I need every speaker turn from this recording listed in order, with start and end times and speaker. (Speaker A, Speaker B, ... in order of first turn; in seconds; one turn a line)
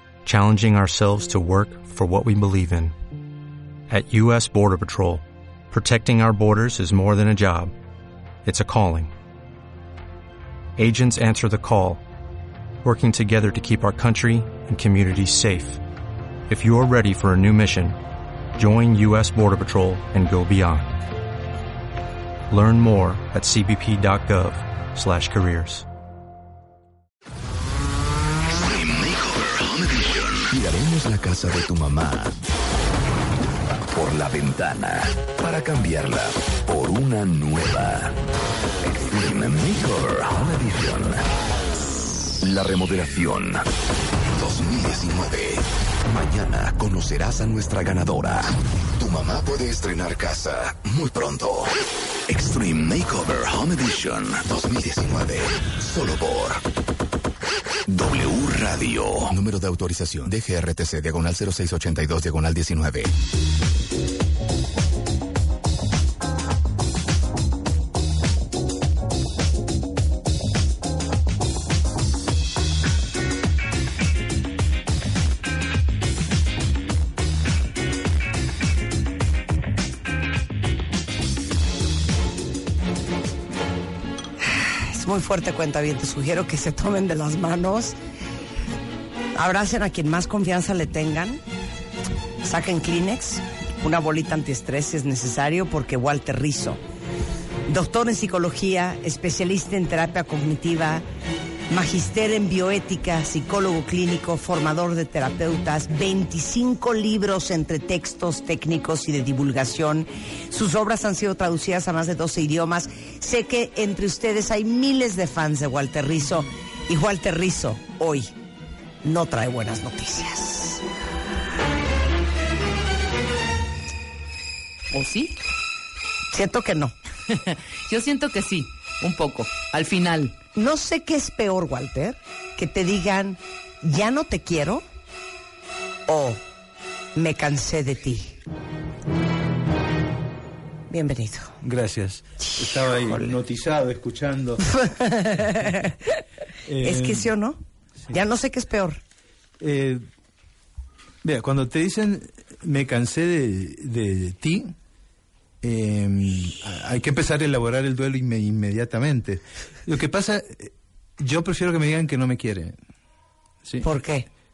Speaker A: 0.2-2.9
Speaker A: 3.9-7.7
Speaker A: 8.4-9.1
Speaker A: 10.8-12.0
Speaker A: 12.8-15.8
Speaker A: 16.5-18.0
Speaker A: 18.6-21.0
Speaker A: 22.5-25.9
Speaker B: 28.5-32.4
Speaker B: 33.9-38.2
Speaker B: 38.9-41.3
Speaker B: 42.4-43.7
Speaker B: 44.3-51.7
Speaker B: 52.3-56.6
Speaker B: 57.9-63.1
Speaker C: 84.4-88.0
Speaker C: 89.3-91.4
Speaker C: 92.4-96.8
Speaker C: 97.7-101.0
Speaker C: 101.7-118.3
Speaker C: 119.0-120.8
Speaker D: 124.9-125.4
Speaker C: 126.3-127.0
Speaker D: 127.3-130.3
Speaker C: 130.6-134.8
Speaker C: 136.1-136.4
Speaker C: 137.2-138.3
Speaker C: 140.9-141.6
Speaker E: 141.6-144.8
Speaker C: 144.8-146.1
Speaker E: 145.3-145.7
Speaker E: 146.7-147.3
Speaker C: 146.8-147.6
Speaker C: 148.1-149.0
Speaker E: 149.6-150.0
Speaker E: 151.2-154.7
Speaker E: 155.6-162.8
Speaker E: 163.6-163.9
Speaker C: 163.8-164.3